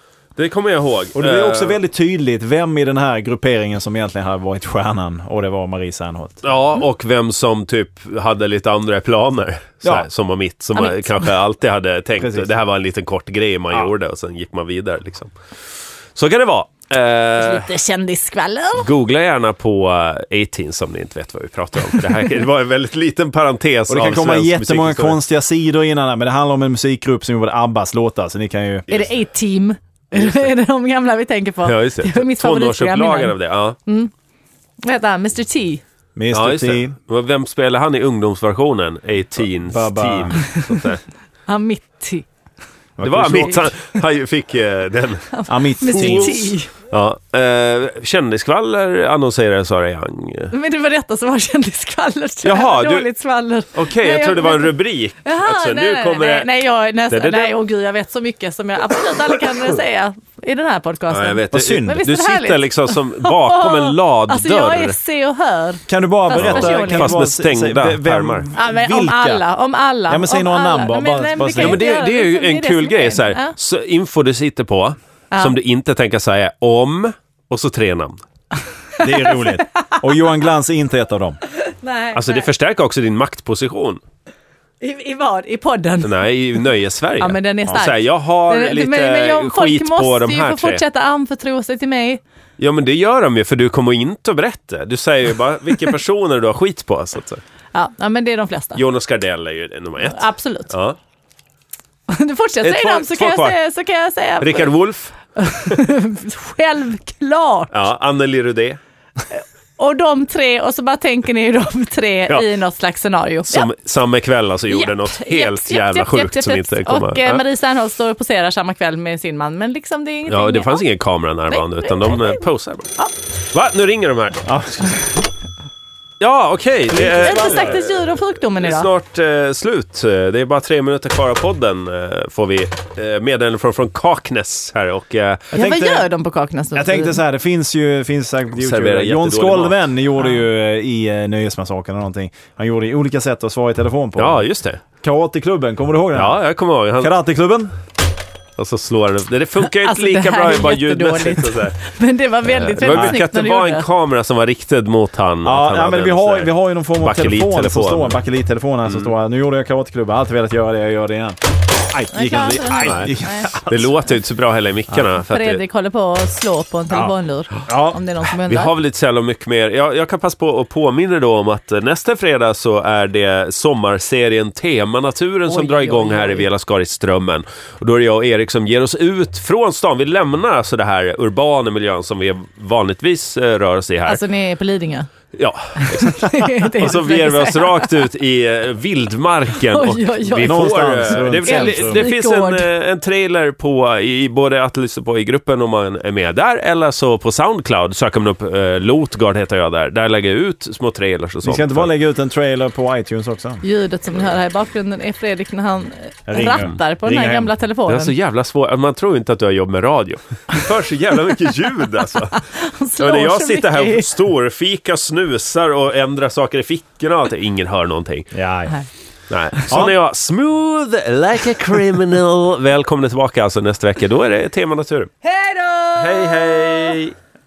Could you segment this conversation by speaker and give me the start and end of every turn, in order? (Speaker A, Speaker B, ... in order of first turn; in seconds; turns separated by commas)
Speaker A: 0.4-1.8, Speaker B: 1.1-6.4, Speaker A: 6.4-15.3, Speaker C: 10.8-11.3, Speaker B: 12.2-12.5, Speaker A: 16.1-17.7, Speaker C: 17.4-18.9, Speaker A: 18.8-25.2, Speaker B: 23.9-29.0, Speaker C: 28.9-34.1, Speaker A: 30.1-30.5, Speaker A: 31.6-33.8, Speaker C: 34.8-35.8, Speaker B: 36.2-36.9, Speaker A: 36.3-41.0, Speaker B: 39.7-40.5, Speaker C: 41.5-42.3, Speaker B: 43.0-43.7, Speaker A: 43.0-45.3, Speaker C: 45.3-46.7, Speaker B: 45.5-46.5, Speaker A: 45.8-50.5, Speaker C: 50.5-67.2, Speaker A: 52.5-53.1, Speaker A: 53.7-56.5, Speaker A: 57.1-57.6, Speaker A: 61.1-65.0, Speaker B: 61.5-62.0, Speaker B: 65.9-69.4, Speaker A: 66.4-68.5, Speaker C: 68.5-73.5, Speaker B: 70.1-71.8, Speaker A: 71.6-78.2, Speaker C: 79.0-80.0, Speaker B: 79.0-81.4, Speaker C: 81.6-82.5, Speaker A: 82.2-84.0, Speaker C: 84.8-86.2, Speaker A: 86.0-90.8, Speaker C: 87.2-92.2, Speaker A: 92.6-97.4, Speaker C: 97.7-98.8, Speaker A: 98.8-101.0, Speaker C: 100.0-100.7, Speaker C: 102.1-104.7, Speaker A: 102.6-103.6, Speaker A: 104.4-105.1, Speaker C: 105.4-107.7, Speaker A: 107.7-108.8, Speaker C: 109.3-113.7, Speaker A: 113.5-117.4, Speaker C: 114.7-120.8, Speaker A: 120.3-125.0, Speaker C: 121.5-122.4, Speaker B: 124.5-125.1, Speaker A: 126.2-135.5, Speaker B: 126.9-127.7, Speaker C: 127.1-128.9, Speaker B: 135.5-136.1, Speaker C: 135.5-137.2, Speaker B: 136.7-144.4, Speaker A: 138.6-139.8, Speaker A: 144.2-144.8, Speaker B: 145.0-146.4, Speaker A: 146.2-147.1, Speaker B: 147.0-147.7, Speaker A: 148.6-151.8, Speaker C: 149.6-153.9, Speaker A: 152.5-158.2, Speaker B: 152.9-153.2, Speaker B: 155.4-163.9, Speaker C: 162.1-163.6, Speaker A: 162.8-165.6, Speaker C: 165.3-168.7, Speaker B: 167.7-168.0, Speaker A: 168.5-184.2, Speaker C: 175.5-176.5, Speaker C: 184.1-185.1, Speaker A: 185.3-201.9, Speaker C: 185.8-187.9, Speaker C: 189.6-192.7, Speaker B: 190.4-192.1, Speaker B: 201.4-203.6, Speaker C: 203.6-208.1, Speaker B: 206.3-207.5, Speaker A: 207.9-212.4, Speaker C: 212.3-214.1, Speaker A: 213.0-218.3, Speaker B: 218.3-218.8, Speaker A: 219.3-225.1, Speaker B: 219.7-219.9, Speaker C: 225.4-226.0, Speaker A: 226.0-227.2